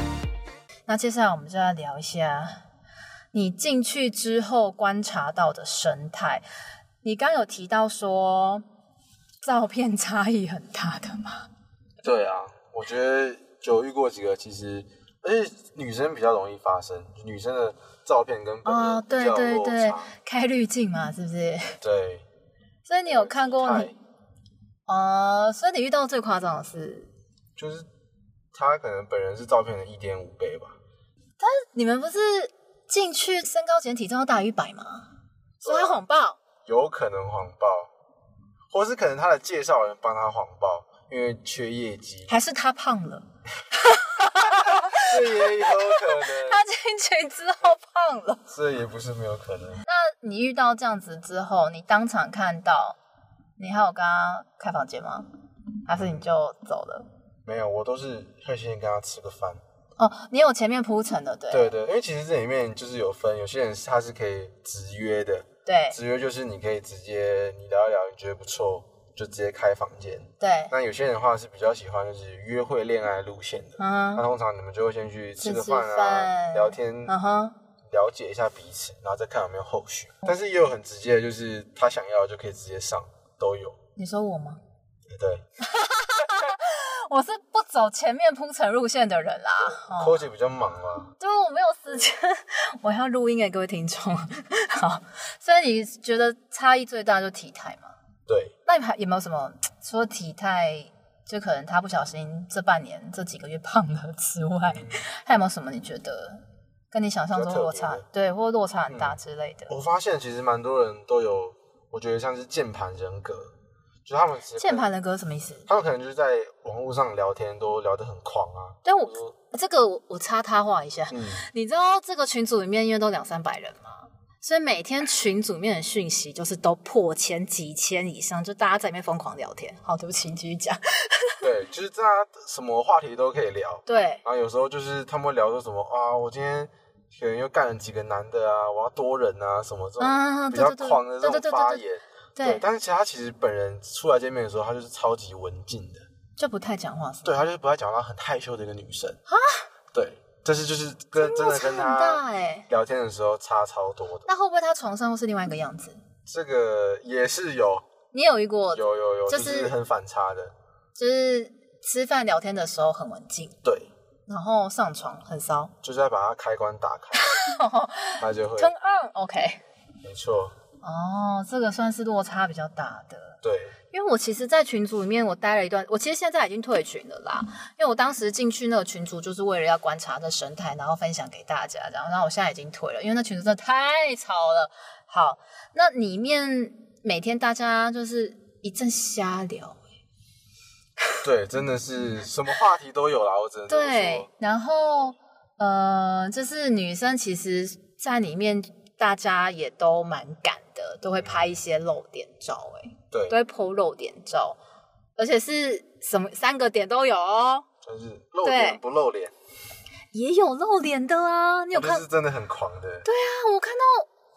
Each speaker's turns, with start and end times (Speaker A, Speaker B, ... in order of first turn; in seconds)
Speaker A: 0.9-2.6, 3.3-6.4, 7.0-8.6, 9.4-11.5, 18.6-21.8, 22.9-23.9, 24.9-27.1, 31.4-35.1, 35.6-36.4, 42.3-48.4, 49.8-53.0, 53.6-55.3, 55.9-57.1, 60.0-61.7, 65.6-66.0, 70.4-70.7, 73.8-74.2, 75.4-77.5, 84.0-84.6, 85.6-90.3, 91.2-97.9, 98.7-109.7, 114.5-115.7, 118.8-131.4, 133.8-134.2, 140.0-141.8, 142.4-142.6, 146.4-147.4, 149.3-149.7, 151.2-152.7, 154.3-156.0, 158.1-159.7, 160.9-163.6, 164.3-165.7, 167.2-169.6, 170.8-173.4, 173.9-189.8, 193.7-204.6, 205.2-207.6, 208.4-208.8, 210.1-212.0, 213.0-214.1
Speaker B: 12.0-20.1, 21.8-22.2, 23.1-23.9, 27.6-27.9, 28.5-30.8, 35.6-36.0, 36.6-37.9, 38.7-42.3, 44.9-46.6, 48.5-49.8, 56.0-56.2, 57.5-59.6, 61.5-77.1, 77.9-83.8, 85.1-85.4, 89.9-91.1, 98.3-98.5, 104.7-105.0, 107.3-108.0, 108.9-113.5, 114.0-114.9, 115.7-119.3, 121.1-121.5, 131.4-146.0, 147.2-149.2, 149.9-154.3, 156.3-157.8, 158.7-160.5, 163.6-163.9, 165.8-167.2, 168.2-168.7, 170.0-170.5, 173.4-173.7, 191.2-194.3, 203.1-203.4, 207.8-209.3, 211.7-213.1